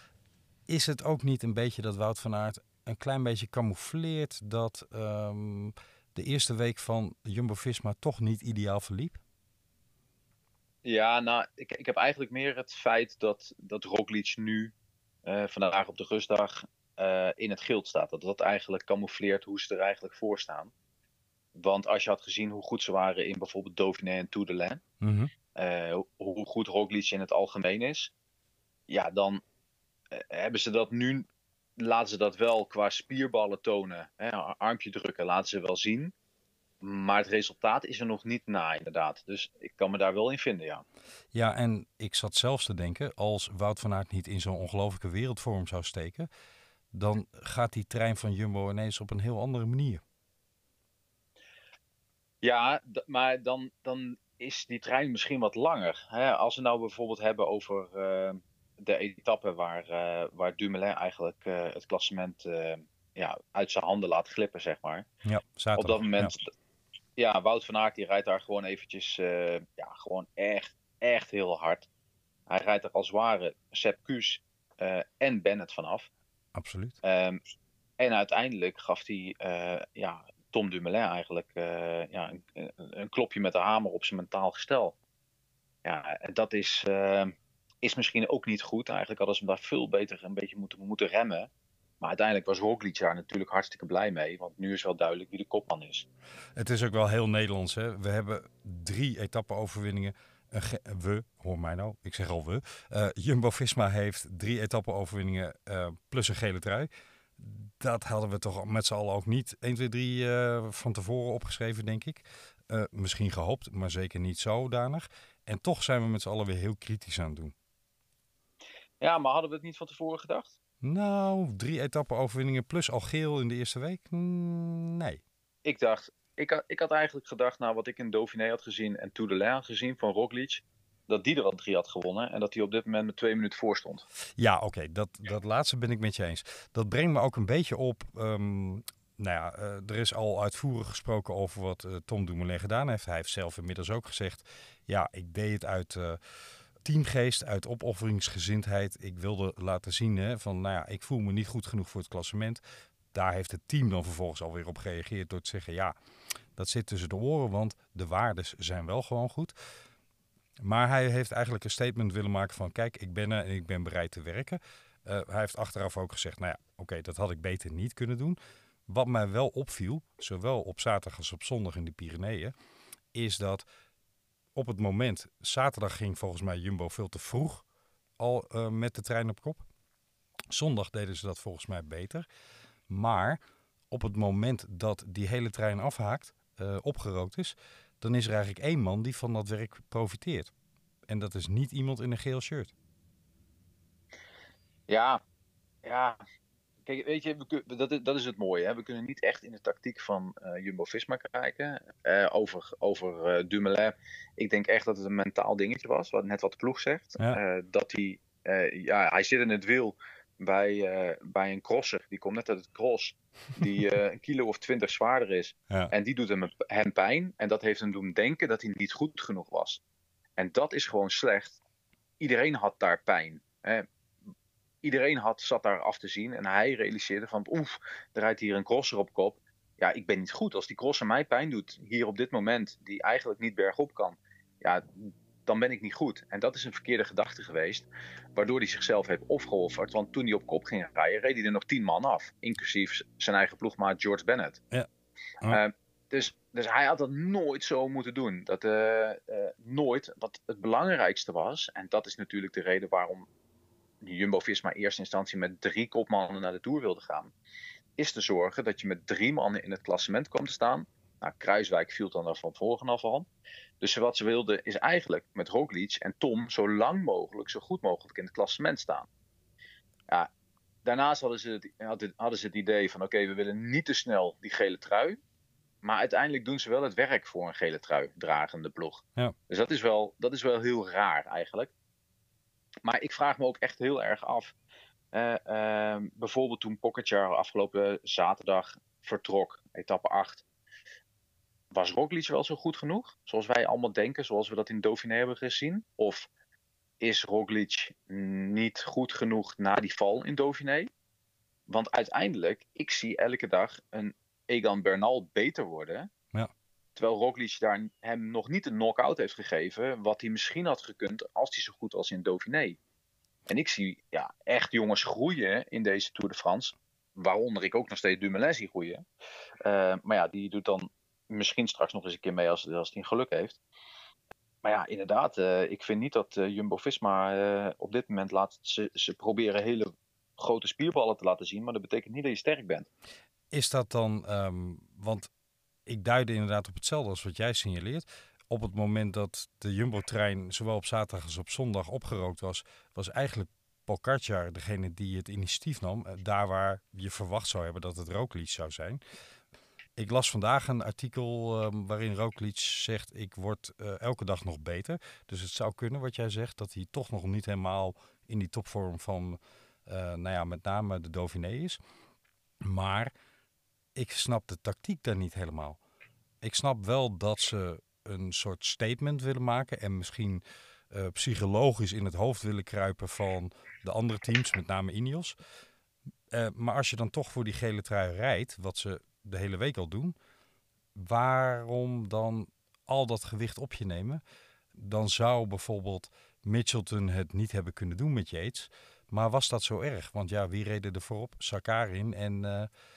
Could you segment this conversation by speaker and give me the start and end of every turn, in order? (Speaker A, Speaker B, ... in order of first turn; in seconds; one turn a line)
Speaker A: 0.7-9.2
Speaker B: 10.8-14.7
Speaker B: 15.2-20.7
Speaker B: 21.5-24.8
Speaker A: 25.0-25.3
Speaker B: 25.5-28.1
Speaker B: 28.9-29.4
Speaker B: 30.1-36.1
Speaker B: 36.8-40.8
Speaker A: 41.3-46.3
Speaker A: 46.9-50.0
Speaker B: 52.4-65.0
Speaker A: 65.2-66.3
Speaker B: 65.8-66.5
Speaker B: 67.2-71.9
Speaker B: 72.5-76.1
Speaker A: 76.5-77.0
Speaker B: 77.0-77.4
Speaker B: 78.0-85.0
Speaker B: 85.8-91.5
Speaker B: 92.0-96.0
Speaker A: 96.5-117.5
Speaker B: 119.0-120.5
Speaker A: 120.8-125.2
Speaker B: 125.6-134.0
Speaker A: 134.4-146.2
Speaker A: 146.8-152.6
Speaker A: 153.1-155.9
Speaker A: 156.6-159.5
Speaker A: 160.6-168.4
Speaker A: 168.9-172.5
Speaker A: 173.1-173.6
Speaker A: 174.5-177.6
Speaker A: 178.2-179.6
Speaker A: 180.5-182.3
Speaker A: 182.9-183.4
Speaker A: 183.9-190.5
Speaker A: 191.1-192.7
Speaker B: 194.9-195.2
Speaker B: 195.8-196.2
Speaker B: 196.9-219.8
Speaker B: 220.4-221.6
Speaker B: 222.2-223.9
Speaker B: 224.8-244.6
Speaker B: 245.4-253.3
Speaker B: 254.0-257.3
Speaker B: 258.0-263.3
Speaker B: 263.8-269.1
Speaker B: 270.9-275.2
Speaker B: 275.8-281.7
Speaker B: 282.9-284.5
Speaker B: 285.1-290.4
Speaker B: 291.7-296.3
Speaker B: 297.0-300.9
Speaker B: 301.7-306.1
Speaker B: 306.9-312.8
Speaker B: 313.5-319.0
Speaker B: 319.6-323.6
Speaker B: 324.6-332.9
Speaker A: 333.5-335.3
Speaker A: 335.9-349.0
Speaker A: 349.9-361.8
Speaker A: 362.6-363.1
Speaker A: 363.9-365.8
Speaker A: 366.4-375.4
Speaker A: 376.3-380.1
Speaker A: 380.9-384.2
Speaker A: 384.7-392.7